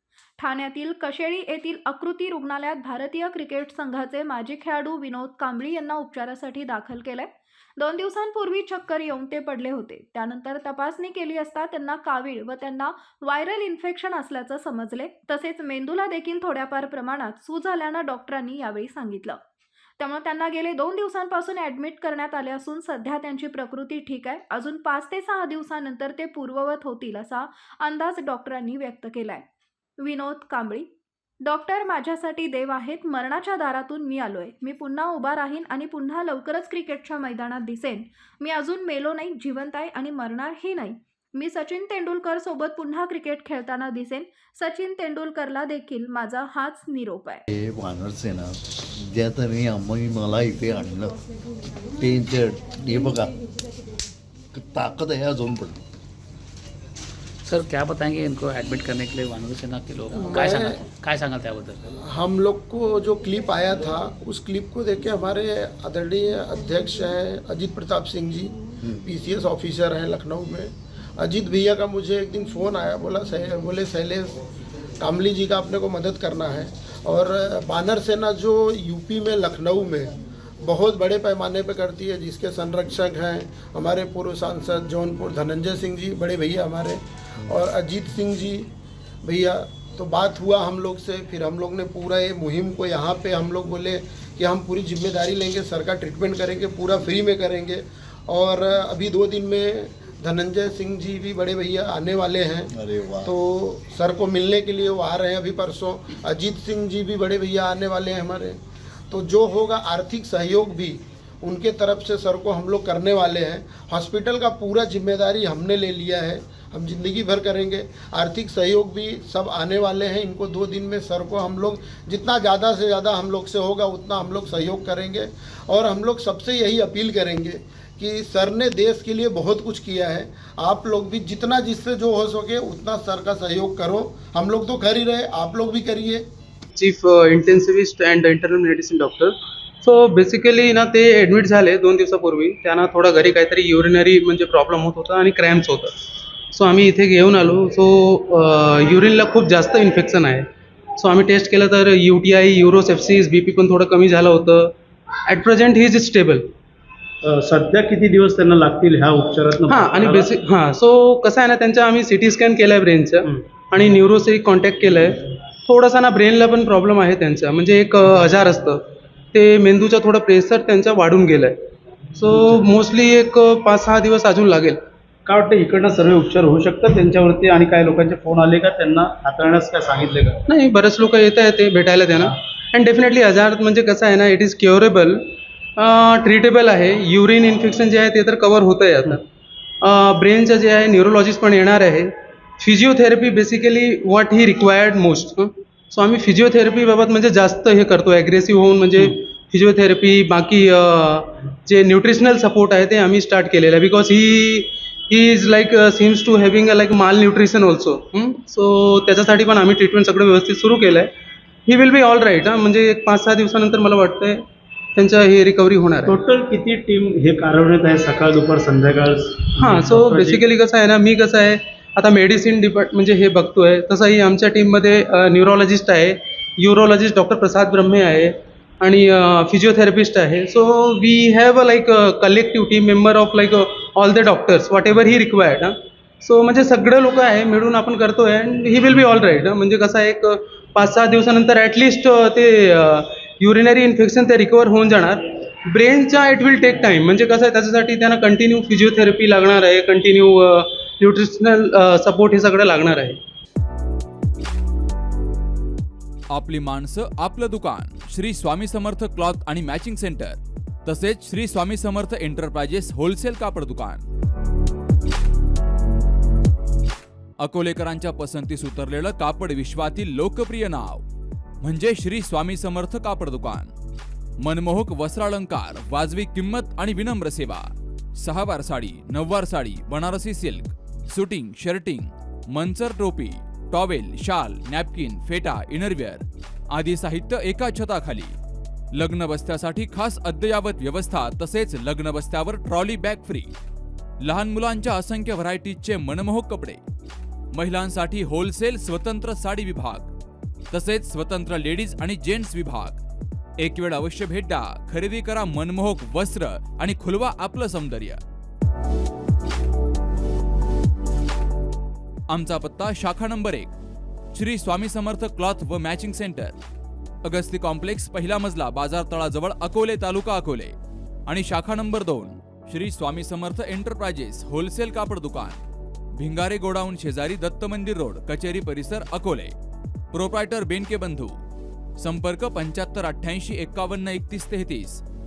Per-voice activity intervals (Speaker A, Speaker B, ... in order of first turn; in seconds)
Speaker A: 0.4-19.4, 20.0-29.4, 30.0-30.9, 31.4-47.4
Speaker B: 47.5-51.2, 52.0-53.4, 54.5-55.8, 102.7-103.3
Speaker C: 57.4-61.8
Speaker D: 60.1-60.8, 62.0-74.4, 75.0-88.7, 89.2-102.7, 103.2-136.2
Speaker E: 136.8-145.9, 146.5-154.7, 155.2-156.5, 159.7-171.6, 172.2-174.8, 180.5-185.2, 185.8-189.2, 189.8-211.1, 211.7-214.4, 214.9-216.2, 219.6-253.2
Speaker F: 157.2-160.2, 175.2-180.4, 216.1-220.4
Speaker G: 256.3-264.1, 267.4-271.0, 271.6-273.7, 274.4-288.4, 288.9-293.5, 294.2-296.8, 297.5-300.1, 300.7-303.0, 303.6-308.2, 312.3-313.7, 314.3-316.6, 317.2-325.6, 326.1-329.5, 330.1-331.4, 332.0-335.0